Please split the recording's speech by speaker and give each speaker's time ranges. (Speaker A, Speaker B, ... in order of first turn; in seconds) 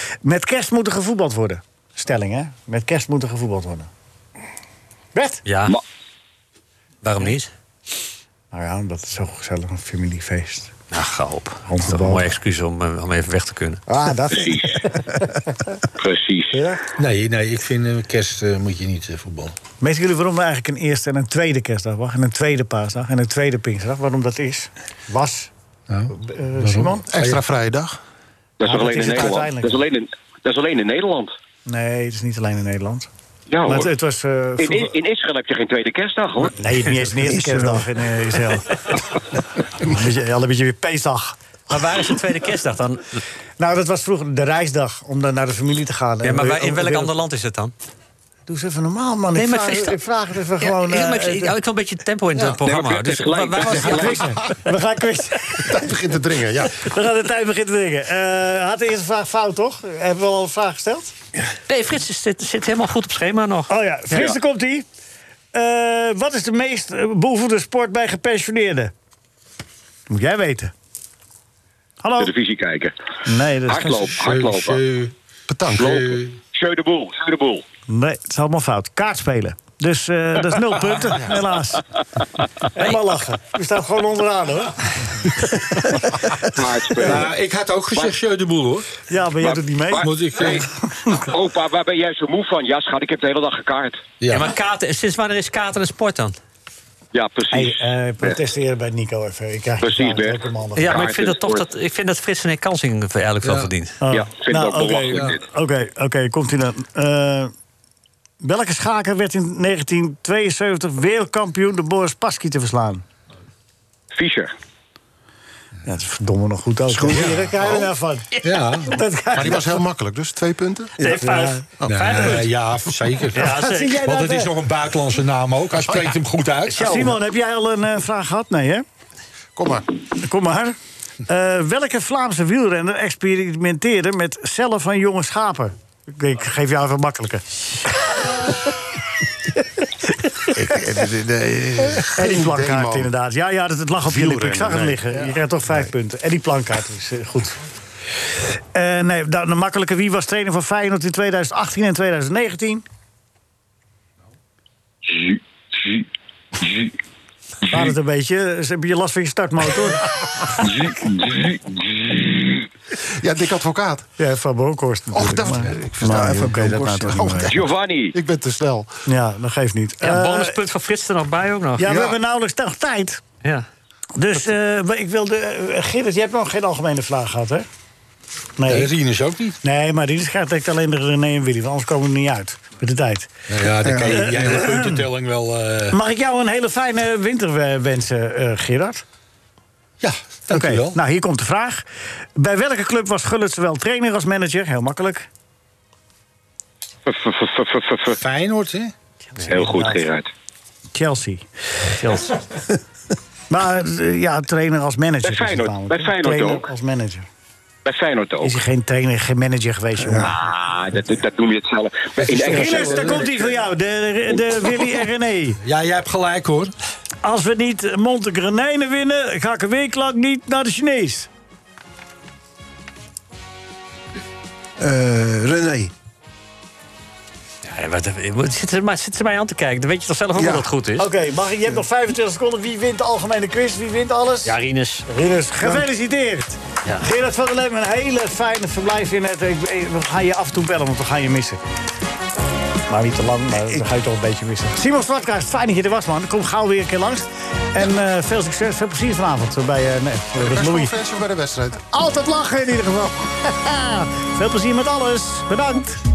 Speaker A: 0.2-3.9, 5.2-5.4, 8.5-10.7, 11.7-12.3, 13.9-15.2, 16.5-16.8, 19.8-25.5, 26.1-27.1, 28.6-29.9, 31.7-33.1, 33.7-35.0, 36.6-38.8, 39.8-41.4, 43.6-47.1, 48.5-51.6, 53.7-55.9, 56.7-61.1, 63.7-64.9, 65.5-68.9, 70.1-70.7, 72.0-72.3, 73.2-74.2, 77.9-81.8, 82.7-84.9, 85.4-86.0, 89.1-91.1, 97.5-101.1, 104.0-107.5, 108.4-113.0, 115.9-119.8, 121.0-121.7, 123.3-124.5, 126.7-128.8, 130.2-138.4, 142.1-147.6, 148.7-152.8, 157.7-160.1, 164.2-167.5, 169.1-170.6, 171.8-173.2, 174.2-177.7, 178.6-178.9, 179.6-183.3, 184.1-185.0, 185.9-189.0, 190.5-195.3, 199.4-200.1, 200.9-202.4, 203.5-207.3, 208.4-210.3, 212.5-215.6, 217.2-221.3, 231.0-234.5, 235.1-241.6, 242.9-251.0, 251.9-256.0
Speaker B: 5.5-5.8, 7.0-7.5, 10.9-13.8, 41.7-43.2, 46.2-47.7, 49.4-50.0, 50.6-54.1, 61.7-63.7, 94.3-96.3, 100.8-104.0, 121.0-122.5, 123.3-124.0, 170.0-172.0, 227.7-231.1, 234.4-235.1
Speaker C: 14.3-14.9, 16.0-16.7, 28.6-31.4, 33.5-33.9, 34.6-36.6, 52.4-54.3, 64.1-64.4, 72.2-72.9, 73.7-74.8, 75.8-77.6, 86.5-87.3, 89.4-94.0, 97.1-98.4, 99.8-101.7, 104.1-105.4, 114.1-114.5, 155.1-156.0, 156.6-156.9, 160.6-161.9, 167.5-168.2, 197.1-198.2, 199.5-200.3, 205.2-206.7, 207.8-208.6, 210.2-213.5
Speaker D: 17.0-19.6, 25.9-27.4, 74.2-75.1, 75.7-76.4, 87.0-88.9, 90.0-90.7, 94.2-94.5, 103.4-103.7, 118.4-119.0, 121.8-127.2, 178.7-179.6, 183.5-186.0, 190.0-191.0, 198.1-198.9, 212.5-213.2, 215.6-216.7
Speaker E: 27.1-28.0, 53.8-54.6, 55.6-56.8, 75.5-75.9, 119.3-120.9, 129.6-129.9, 140.6-143.1, 144.1-145.2, 163.2-164.1, 165.1-166.2, 167.1-168.9, 250.4-251.9
Speaker F: 37.2-37.9, 116.9-117.5, 166.0-167.7, 183.8-184.5, 224.8-225.9, 230.3-230.7